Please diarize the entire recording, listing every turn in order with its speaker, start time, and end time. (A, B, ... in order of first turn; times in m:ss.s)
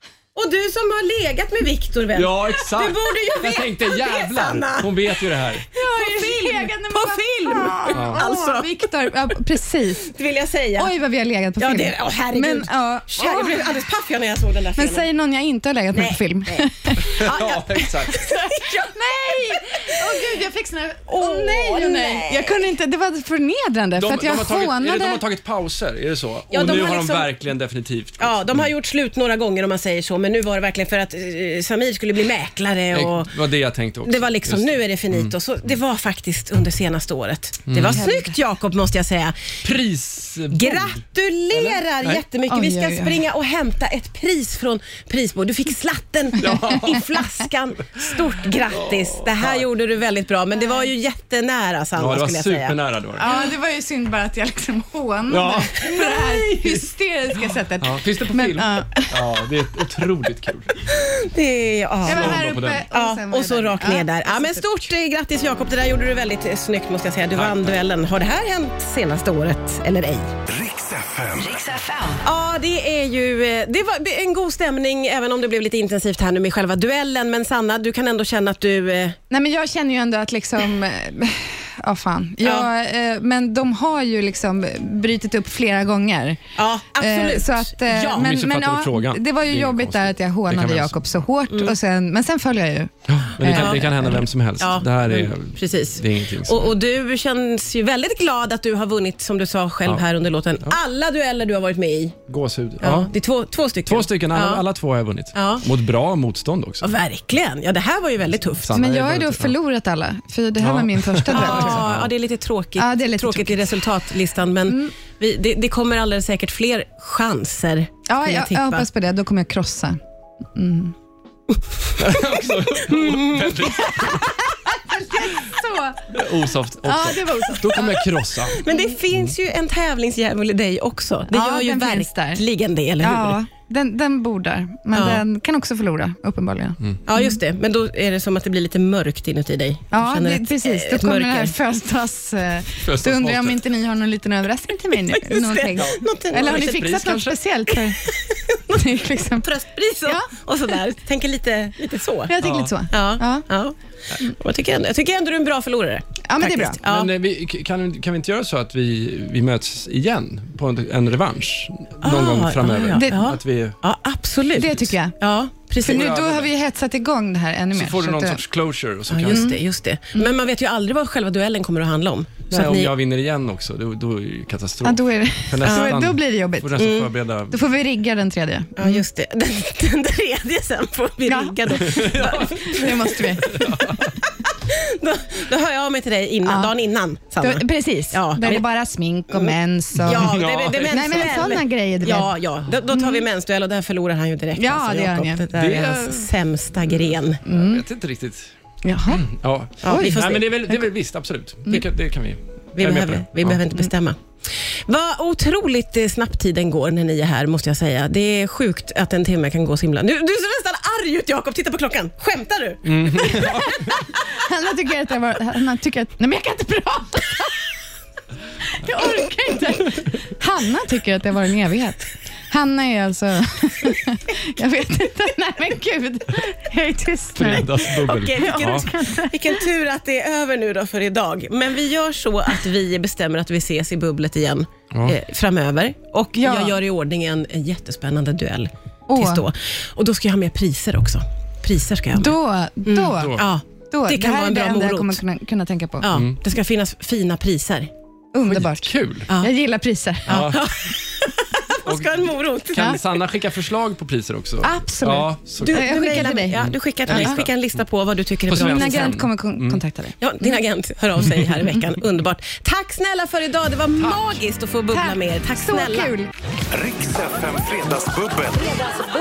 0:00.3-0:05.1 A
0:02.1-0:05.6 B
0:05.7-0:10.1 C
0:05.8-0:08.8 A
0:07.9-0:08.2 B
0:10.0-0:10.9 A
0:10.8-0:13.8 C
0:11.6-0:15.0 A
0:14.8-0:17.2 C
0:15.9-0:20.2 A
0:17.0-0:18.2 B
0:18.2-0:25.2 C
0:21.1-0:22.7 A
0:24.0-0:28.7 B
0:26.5-0:27.4 A
0:28.2-0:33.4 A
0:32.9-0:35.3 B
0:34.0-0:39.6 A
0:37.7-0:38.0 B
0:37.8-0:38.3 C
0:39.6-0:42.2 B
0:40.5-0:52.8 A
0:42.5-0:43.2 C
0:46.4-0:47.2 B
0:46.5-0:47.0 C
0:47.8-0:49.7 B
0:50.6-0:50.9 C
0:52.0-0:53.3 B
0:53.2-0:59.1 C
0:55.3-0:56.8 B
0:57.8-1:00.7 B
1:00.9-1:10.3 A
1:02.0-1:04.8 C
1:02.0-1:02.8 B
1:07.3-1:07.8 B
1:10.4-1:12.0 D
1:12.2-1:19.2 A
1:19.3-1:34.2 C
1:22.4-1:22.7 A
1:26.6-1:28.3 A
1:28.1-1:31.2 B
1:31.5-1:31.7 A
1:33.1-1:36.8 B
1:33.4-1:42.2 A
1:42.3-1:43.1 B
1:42.8-1:44.6 A
1:43.8-1:47.0 B
1:45.3-1:45.7 A
1:46.8-1:48.8 A
1:48.6-1:49.5 B
1:48.7-1:51.8 C
1:50.6-1:52.1 B
1:51.3-1:58.8 A
1:52.8-1:53.8 C
1:54.7-1:54.9 C
1:58.1-2:00.0 C
2:00.5-2:00.9 C
2:02.0-2:04.5 B
2:02.9-2:04.0 A
2:04.0-2:06.1 C
2:06.1-2:08.6 B
2:06.8-2:08.0 C
2:08.6-2:13.4 A
2:11.3-2:12.4 C
2:13.0-2:17.3 C
2:14.9-2:15.2 A
2:17.0-2:21.5 A
2:19.9-2:28.1 C
2:22.8-2:23.6 B
2:25.2-2:26.6 A
2:25.8-2:27.4 B
2:28.0-2:32.3 A
2:28.7-2:29.5 C
2:30.0-2:30.3 C
2:32.3-2:33.5 C
2:32.4-2:32.7 B
2:32.9-2:37.1 A
2:36.2-2:36.8 C
2:36.8-2:43.8 B
2:42.0-2:46.1 A
2:42.9-2:43.2 C
2:44.6-2:45.1 C
2:45.8-2:46.5 B
2:45.8-2:48.4 C
2:47.7-2:49.5 B
2:49.1-2:52.9 A
2:49.3-2:49.6 C
2:52.5-2:57.6 B
2:54.8-2:56.8 C
2:55.6-2:55.9 A
2:56.8-2:57.1 A
2:57.5-2:59.0 C
2:58.8-3:08.7 A
3:01.2-3:03.7 C
3:01.8-3:02.7 B
3:03.4-3:04.2 B
3:06.4-3:06.7 C
3:07.4-3:10.3 C
3:09.3-3:17.4 A
3:10.0-3:11.4 B
3:10.9-3:12.3 C
3:12.9-3:13.2 C
3:14.6-3:15.5 C
3:15.5-3:16.3 B
3:16.8-3:18.5 B
3:17.4-3:17.8 C
3:18.8-3:19.3 C
3:19.1-3:23.6 B
3:19.8-3:20.5 A
3:19.8-3:20.3 C
3:22.8-3:33.8 A
3:32.8-3:33.9 B
3:33.2-3:37.7 C
3:38.7-3:49.6 C
3:47.4-3:48.9 B
3:47.8-4:05.2 A
3:54.9-3:55.2 B
3:56.4-3:56.8 C
3:59.1-3:59.4 C
4:02.1-4:06.1 C
4:03.0-4:03.5 B
4:06.0-4:07.9 A
4:06.1-4:06.4 B
4:08.3-4:10.6 C
4:08.4-4:09.3 B
4:09.3-4:09.5 A
4:10.3-4:10.7 B
4:10.3-4:13.2 A
4:11.8-4:15.9 B
4:14.6-4:17.4 C
4:15.6-4:19.2 A
4:16.6-4:17.5 B
4:18.5-4:19.8 B
4:18.6-4:20.2 C
4:20.2-4:26.1 A
4:21.2-4:21.7 B
4:24.0-4:24.4 B
4:24.9-4:26.3 C
4:26.7-4:29.1 D